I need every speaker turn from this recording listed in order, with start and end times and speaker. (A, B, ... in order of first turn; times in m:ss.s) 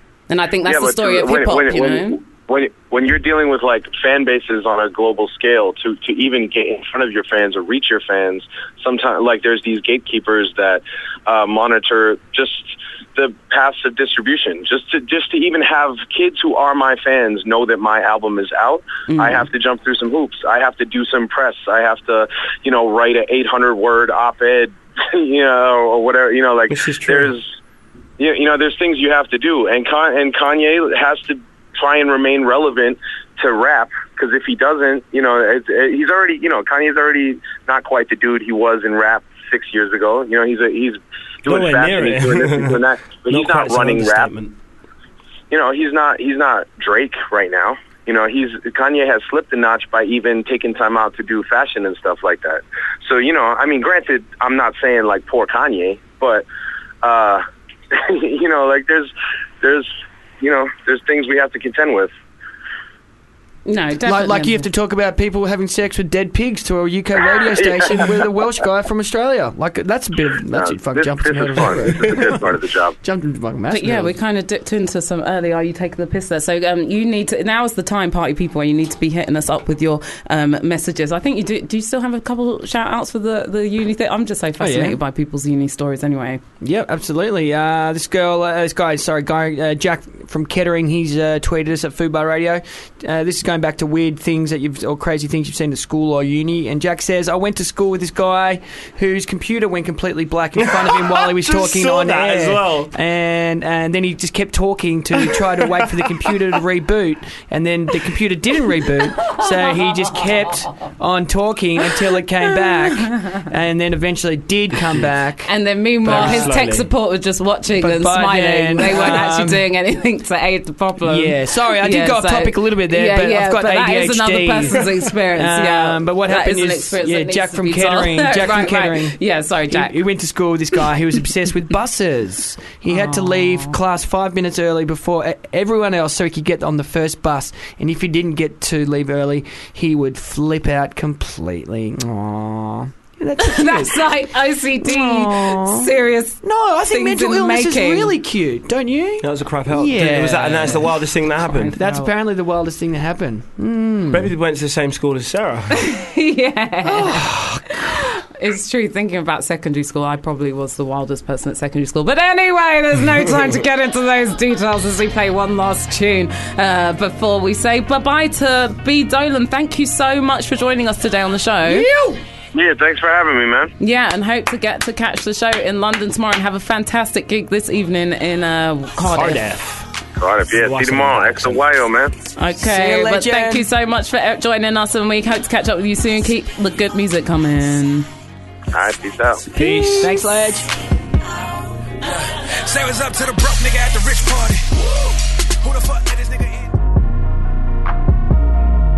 0:00.3-0:02.2 A
0:00.6-0:27.5 B
0:19.1-0:19.4 A
0:26.7-0:27.3 C
0:28.2-0:44.3 B
0:41.4-0:44.5 C
0:45.5-0:56.4 B
0:57.0-0:59.9 B
1:00.4-1:02.1 B
1:03.6-1:04.7 A
1:04.0-1:12.4 D
1:07.6-1:08.2 B
1:10.5-1:13.0 B
1:13.0-1:14.1 D
1:13.7-1:26.4 A
1:24.6-1:25.0 D
1:26.6-1:55.5 D
1:40.6-1:42.9 C
1:55.4-2:10.0 A
1:56.0-1:56.9 C
1:56.1-1:56.5 D
1:57.8-1:59.6 D
2:01.0-2:09.2 D
2:09.7-2:24.1 D
2:12.9-2:13.8 A
2:23.4-2:28.1 A
2:24.8-2:25.9 D
2:26.4-2:30.9 D
2:29.2-2:31.7 C
2:31.4-2:32.1 A
2:31.7-2:34.3 D
2:34.1-2:35.8 C
2:35.8-2:51.9 A
2:36.8-2:37.8 D
2:51.6-2:52.2 D
2:52.5-2:53.7 B
2:53.8-2:59.4 A
2:59.1-2:59.9 C
3:00.2-3:02.1 B
3:00.5-3:01.6 C
3:02.4-3:08.1 A
3:02.6-3:03.7 D
3:08.7-3:09.4 B
3:09.5-3:10.1 C
3:09.6-3:10.7 D
3:09.6-3:10.0 A
3:12.0-3:14.9 E
3:15.6-3:16.7 E